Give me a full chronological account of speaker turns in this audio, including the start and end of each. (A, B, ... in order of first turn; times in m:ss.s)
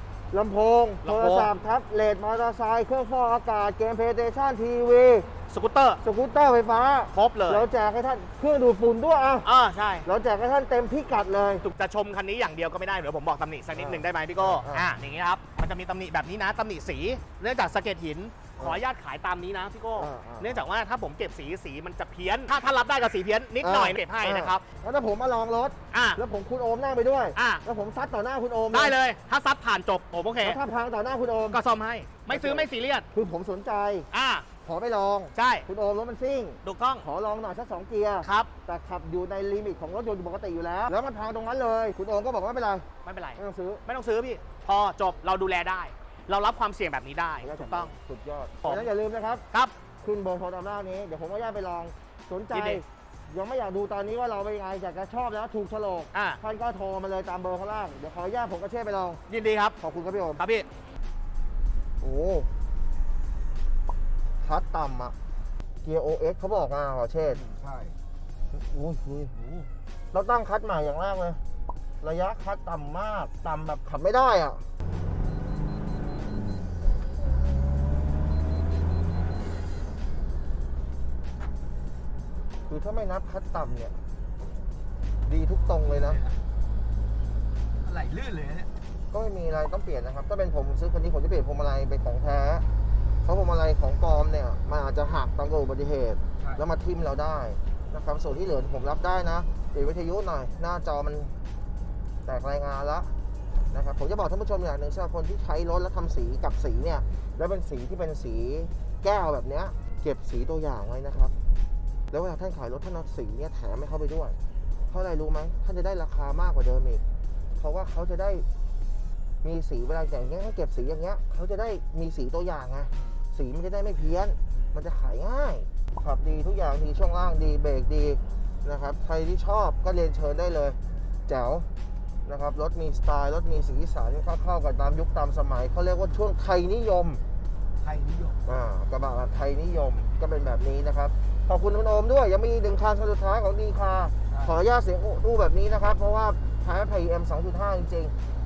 0:00.3-0:05.3 A
0:01.0-0:01.5 B
0:05.5-0:06.0 B
0:06.0-0:09.5 A
0:07.1-0:07.7 B
0:09.4-0:10.1 B
0:10.0-0:11.6 A
0:11.6-0:24.6 B
0:13.8-0:14.9 A
0:20.0-0:20.6 A
0:23.6-0:29.0 A
0:25.9-0:26.2 B
0:27.4-0:27.6 B
0:28.7-0:30.6 B
0:30.4-0:31.6 A
0:31.5-0:33.0 B
0:32.3-0:34.1 A
0:34.1-0:34.4 B
0:34.6-0:43.8 A
0:35.4-0:35.6 B
0:36.6-0:37.0 B
0:38.2-0:38.5 B
0:43.0-0:47.9 B
0:47.4-0:49.4 A
0:48.6-0:48.9 B
0:50.0-0:59.2 A
0:52.5-0:52.8 B
0:56.1-0:56.4 B
0:59.3-0:59.8 B
0:59.8-1:00.4 A
1:00.4-1:00.7 B
1:02.0-1:02.5 A
1:04.4-1:05.1 A
1:05.8-1:07.4 A
1:07.4-1:07.9 C
1:08.5-1:09.4 A
1:10.1-1:11.4 A
1:12.0-1:14.6 A
1:22.7-1:23.9 A
1:25.2-1:26.2 A
1:26.0-1:26.4 C
1:27.8-1:28.7 C
1:29.1-1:32.6 A
1:33.2-1:41.4 A
1:42.2-1:43.1 A
1:43.7-1:51.3 A
1:52.1-1:54.4 A
1:54.9-1:57.0 A
1:57.6-1:58.4 A
1:59.4-2:11.7 A
2:12.2-2:17.2 A
2:17.8-2:18.4 C
2:18.4-2:28.1 A
2:24.3-2:24.5 C